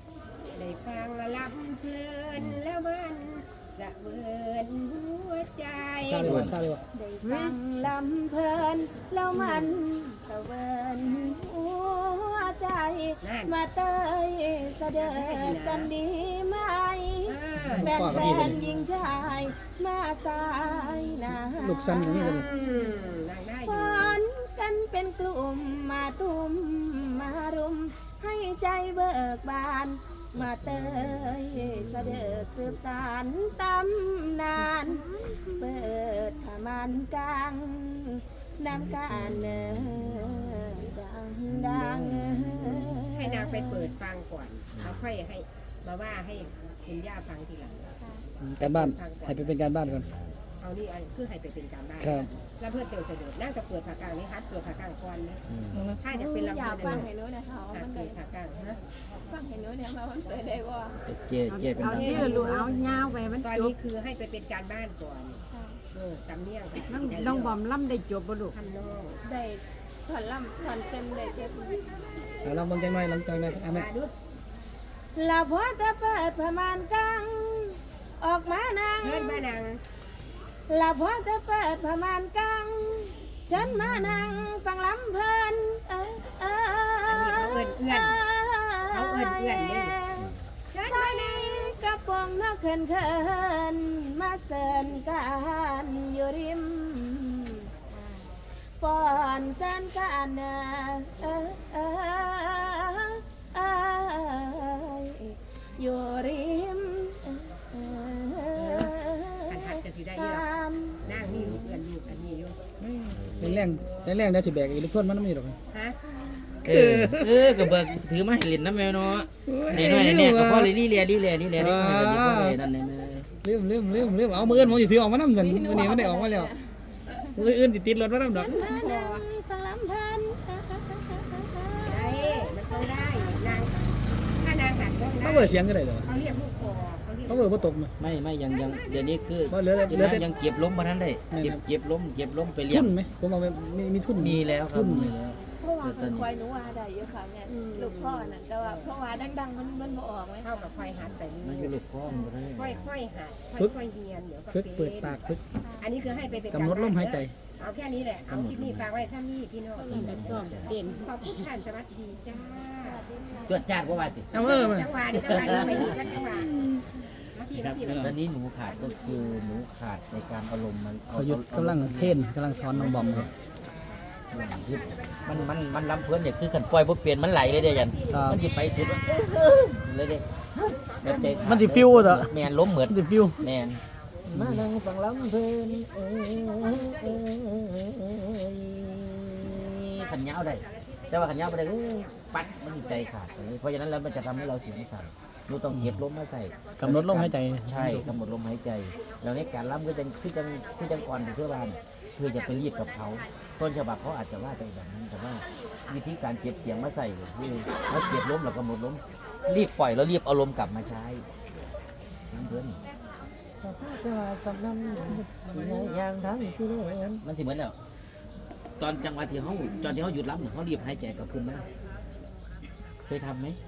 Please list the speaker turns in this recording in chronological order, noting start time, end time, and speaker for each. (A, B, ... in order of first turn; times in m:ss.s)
0:00.5-0:06.3 A
0:06.0-0:06.8 B
0:06.2-0:06.6 C
0:06.9-0:23.0 D
0:07.2-0:07.6 E
0:13.2-0:13.6 A
0:15.0-0:15.9 A
0:17.3-0:18.5 A
0:17.8-0:18.6 B
0:21.6-0:22.4 B
0:22.3-0:24.2 A
0:23.5-0:43.9 D
0:30.7-0:32.5 C
0:34.8-0:35.6 E
0:38.9-0:40.9 C
0:41.8-0:42.9 B
0:43.1-0:48.0 A
0:44.7-0:45.0 C
0:48.0-0:48.2 D
0:48.4-0:50.1 B
0:48.6-0:49.6 A
0:49.8-0:50.4 C
0:50.6-0:55.4 A
0:52.0-0:52.3 B
0:55.5-0:56.0 C
0:56.0-0:57.1 A
0:56.1-0:58.2 D
0:57.7-0:58.8 A
0:59.2-1:01.0 D
1:01.0-1:03.3 C
1:01.5-1:03.7 E
1:03.4-1:05.4 A
1:05.5-1:05.8 D
1:05.9-1:07.6 A
1:06.9-1:08.6 E
1:08.5-1:09.2 A
1:09.2-1:12.0 D
1:12.4-1:13.9 B
1:13.6-1:14.1 A
1:15.2-1:19.4 D
1:19.0-1:19.8 A
1:20.7-1:30.3 D
1:23.7-1:24.1 C
1:27.0-1:28.2 A
1:28.9-1:30.0 A
1:30.7-1:31.8 A
1:30.8-1:51.5 D
1:48.6-1:50.5 A
1:51.0-1:51.8 C
1:51.0-1:52.6 A
1:53.0-1:55.6 B
1:53.1-1:53.8 C
1:53.7-1:54.0 A
1:55.7-1:56.0 A
1:56.6-2:03.3 C
1:56.7-1:57.2 B
1:59.5-2:00.7 B
1:59.5-1:59.9 E
2:01.6-2:02.6 B
2:03.4-2:06.5 B
2:04.5-2:04.8 C
2:05.3-2:07.4 D
2:05.5-2:06.2 E
2:07.4-2:08.5 B
2:07.5-2:07.8 E
2:08.2-2:14.0 D
2:08.6-2:09.3 A
2:11.9-2:17.8 A
2:15.3-2:16.1 B
2:17.3-2:17.9 B
2:18.0-2:23.0 C
2:19.5-2:20.3 B
2:21.3-2:21.6 B
2:22.7-2:25.1 B
2:24.2-2:26.3 C
2:25.6-2:30.7 D
2:27.5-2:28.9 A
2:30.4-2:31.8 A
2:31.0-2:32.9 C
2:32.6-2:35.2 A
2:34.5-2:35.4 B
2:35.6-2:35.9 D
2:35.8-2:43.1 A
2:36.5-2:37.3 B
2:38.3-2:38.9 C
2:39.8-2:41.5 E
2:39.9-2:40.8 C
2:43.4-2:44.3 C
2:44.3-2:44.9 B
2:44.3-2:46.6 A
2:45.1-2:46.3 C
2:47.3-2:49.2 A
2:47.5-2:53.3 C
2:51.2-2:53.3 B
2:52.0-2:55.9 A
2:54.3-3:31.3 C
2:57.6-2:59.2 A
2:58.1-2:58.4 B
3:00.6-3:02.0 A
3:01.4-3:03.4 B
3:02.8-3:04.4 A
3:04.3-3:04.6 B
3:05.1-3:07.2 A
3:10.0-3:13.6 A
3:14.1-3:14.9 A
3:15.7-3:16.0 B
3:16.5-3:17.5 A
3:16.8-3:18.1 B
3:18.9-3:21.8 A
3:22.4-3:23.2 A
3:32.3-3:32.8 C
3:33.6-3:37.8 C
3:35.5-3:35.9 E
3:38.8-3:41.7 C
3:43.1-3:43.6 C